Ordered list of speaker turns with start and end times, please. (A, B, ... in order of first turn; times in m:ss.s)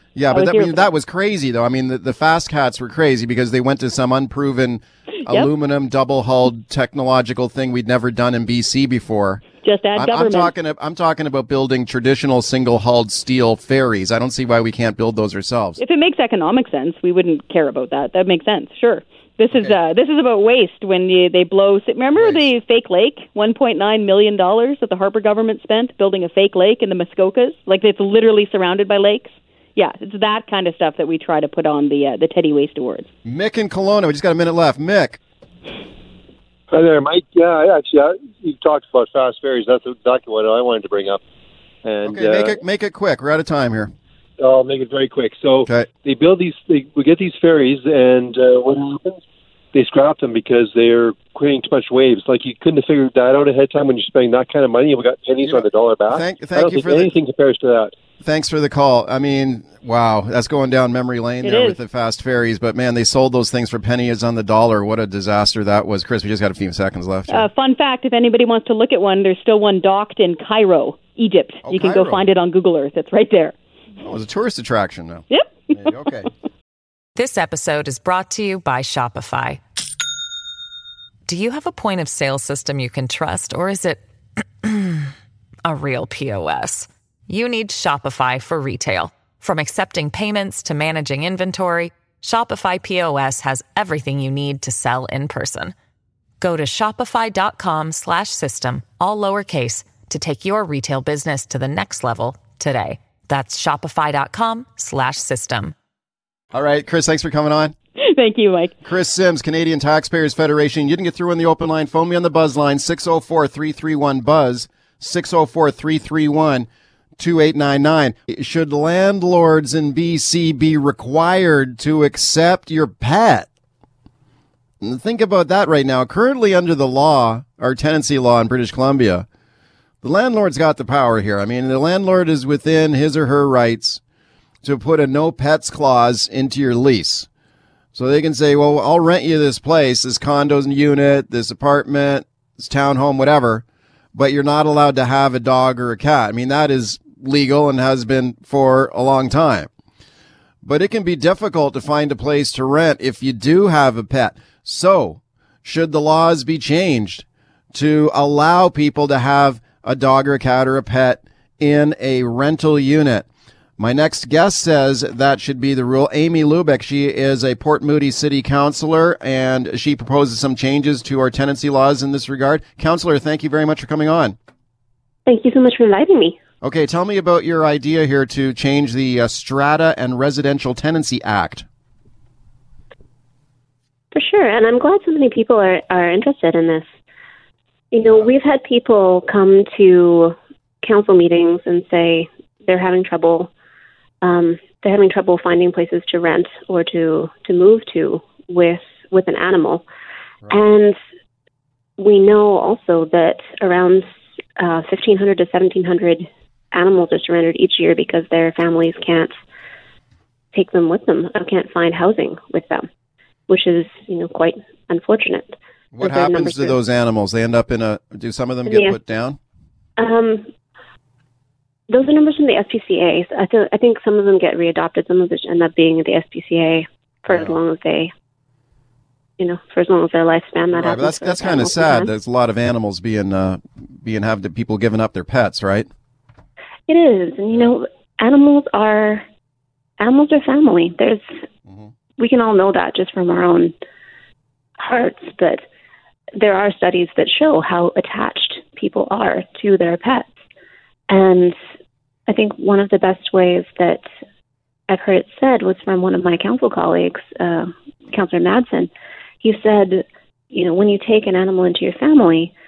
0:00.1-0:09.4 A
0:00.3-0:00.8 B
0:09.6-0:10.5 B
0:09.9-0:15.8 A
0:15.8-0:33.1 B
0:19.5-0:19.8 A
0:22.1-0:22.4 A
0:33.2-0:35.2 A
0:36.7-0:41.2 C
0:41.8-0:42.6 C
0:42.0-0:43.9 A
0:44.4-0:49.2 C
0:49.7-0:57.9 C
0:55.4-0:57.1 A
0:58.2-1:07.5 A
1:01.4-1:01.8 B
1:07.3-1:13.5 B
1:11.6-1:12.2 A
1:14.0-1:16.3 A
1:15.3-1:15.7 B
1:17.1-1:19.6 D
1:21.2-1:24.0 D
1:24.6-1:25.1 D
1:25.6-1:35.7 D
1:36.4-1:45.7 D
1:46.5-1:47.7 A
1:48.0-1:48.7 B
1:48.8-1:56.7 A
1:57.2-2:03.5 A
2:04.8-2:09.2 A
2:10.0-2:14.0 A
2:14.6-2:17.3 A
2:17.9-2:29.7 A
2:30.6-2:43.3 A
2:43.8-2:54.4 A
2:55.3-2:56.4 E
2:56.6-3:01.6 A
3:04.1-3:06.9 E
3:07.9-3:13.5 E
3:14.2-3:19.8 E
3:20.5-3:21.0 E
3:22.0-3:24.1 E
3:24.6-3:29.3 E
3:30.5-3:32.9 E
3:33.5-3:36.8 E
3:35.9-3:39.4 A
3:38.6-3:39.0 E
3:40.0-3:40.5 E
3:41.9-3:48.1 E
3:47.3-3:47.6 A
3:49.4-3:52.1 E
3:50.8-3:55.9 A
3:56.9-3:59.2 E
4:00.0-4:01.2 E
4:02.2-4:03.7 E
4:04.8-4:05.6 E
4:06.4-4:10.3 E
4:11.1-4:11.6 E
4:12.3-4:14.0 E
4:14.9-4:18.9 E
4:19.4-4:22.5 E